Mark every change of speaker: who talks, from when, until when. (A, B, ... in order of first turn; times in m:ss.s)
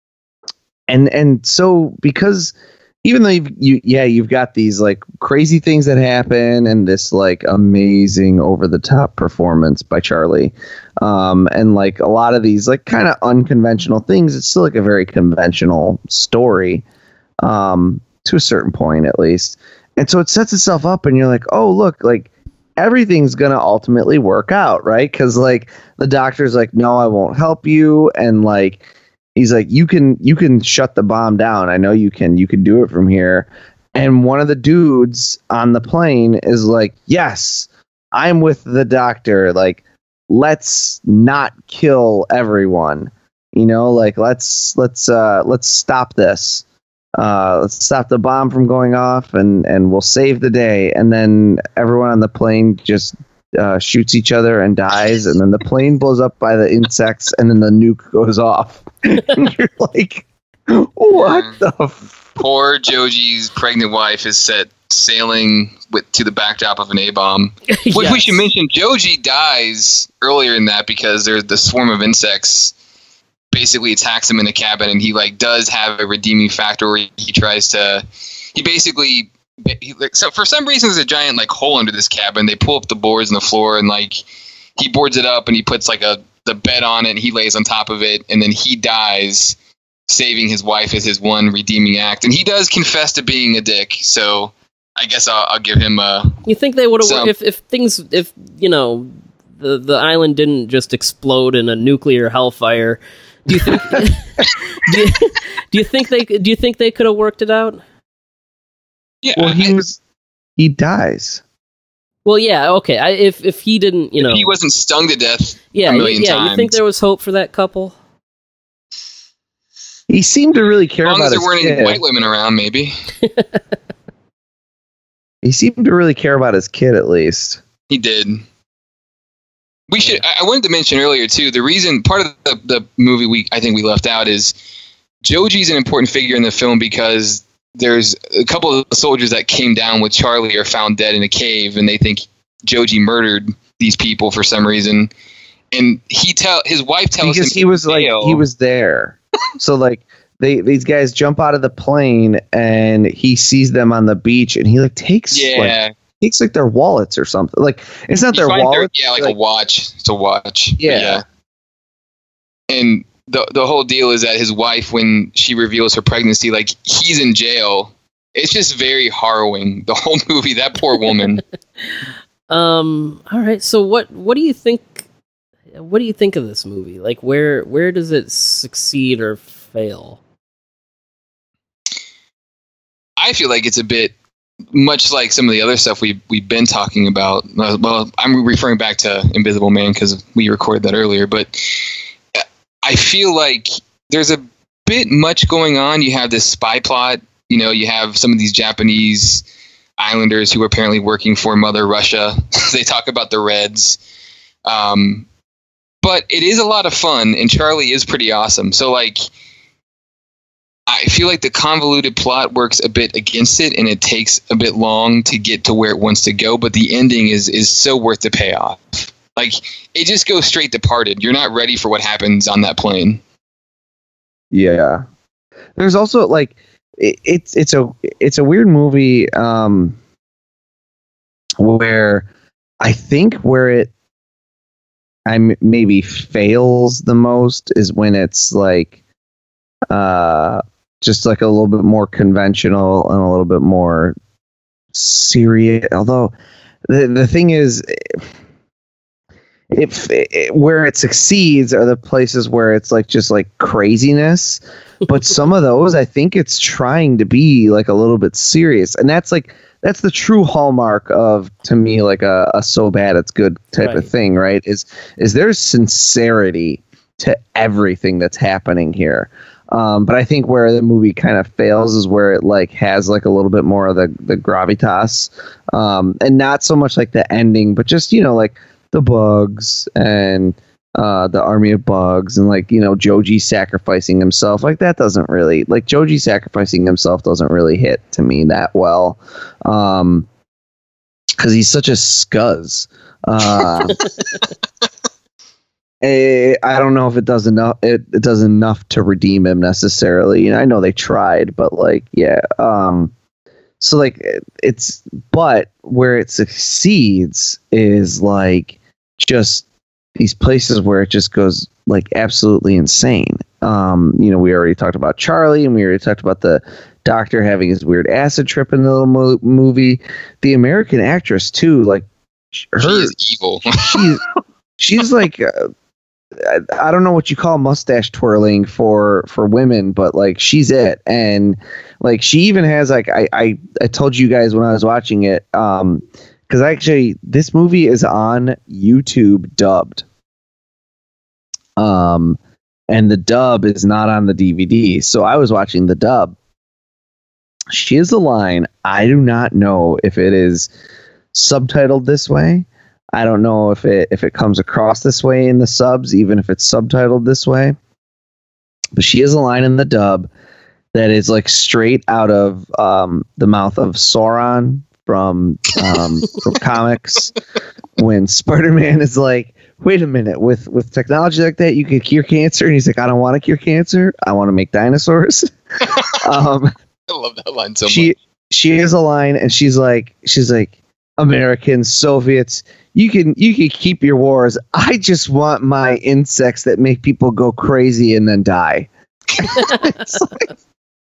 0:00.9-0:16.8 A
0:17.4-0:28.8 A
0:29.4-0:46.6 A
0:47.2-1:02.4 A
1:01.2-1:01.6 B
1:02.4-1:12.8 B
1:07.7-1:08.5 C
1:13.5-1:18.0 B
1:18.5-1:24.2 B
1:24.8-1:29.6 B
1:30.1-1:36.4 B
1:36.5-1:47.8 C
1:37.0-1:37.3 B
1:49.2-1:49.8 B
1:49.4-1:50.0 A
1:50.6-1:51.4 A
1:52.2-1:54.5 C
1:54.2-1:56.8 B
1:55.7-1:58.0 C
2:00.1-2:02.0 A
2:01.0-2:03.0 B
2:03.2-2:03.6 C
2:05.4-2:07.6 A
2:07.9-2:08.4 B
2:09.9-2:14.5 B
2:15.2-2:25.1 B
2:25.7-2:28.4 B
2:27.2-2:39.4 A
2:35.3-2:35.9 B
2:38.3-2:41.2 B
2:40.8-2:41.2 A
2:42.7-2:51.4 B
2:51.8-2:55.1 C
2:55.7-3:00.2 C
3:03.2-3:04.1 B
3:04.7-3:19.4 B
3:20.0-3:24.0 B
3:24.7-3:25.3 B
3:26.0-3:29.2 B
3:30.9-3:43.2 B
3:44.5-3:45.0 A
3:45.8-3:50.0 A
3:51.6-3:52.3 A
3:52.8-3:53.9 A
3:55.3-3:58.9 A
3:59.9-4:04.2 A
4:04.9-4:06.3 A
4:06.9-4:08.2 A
4:09.7-4:50.3 A
4:23.8-4:24.1 C
4:51.4-4:54.0 A
4:56.0-5:03.1 A
5:03.8-5:23.1 A
5:22.8-5:24.1 B
5:23.8-5:24.2 A
5:24.8-5:25.7 A
5:26.4-5:40.0 A
5:41.8-5:42.4 A
5:42.9-5:46.4 A
5:47.7-5:50.7 A
5:51.3-5:57.8 A
5:59.0-6:00.3 A
6:00.9-6:07.3 A
6:08.0-6:16.7 A
6:17.1-6:18.1 B
6:17.9-6:30.4 A
6:29.4-6:30.3 C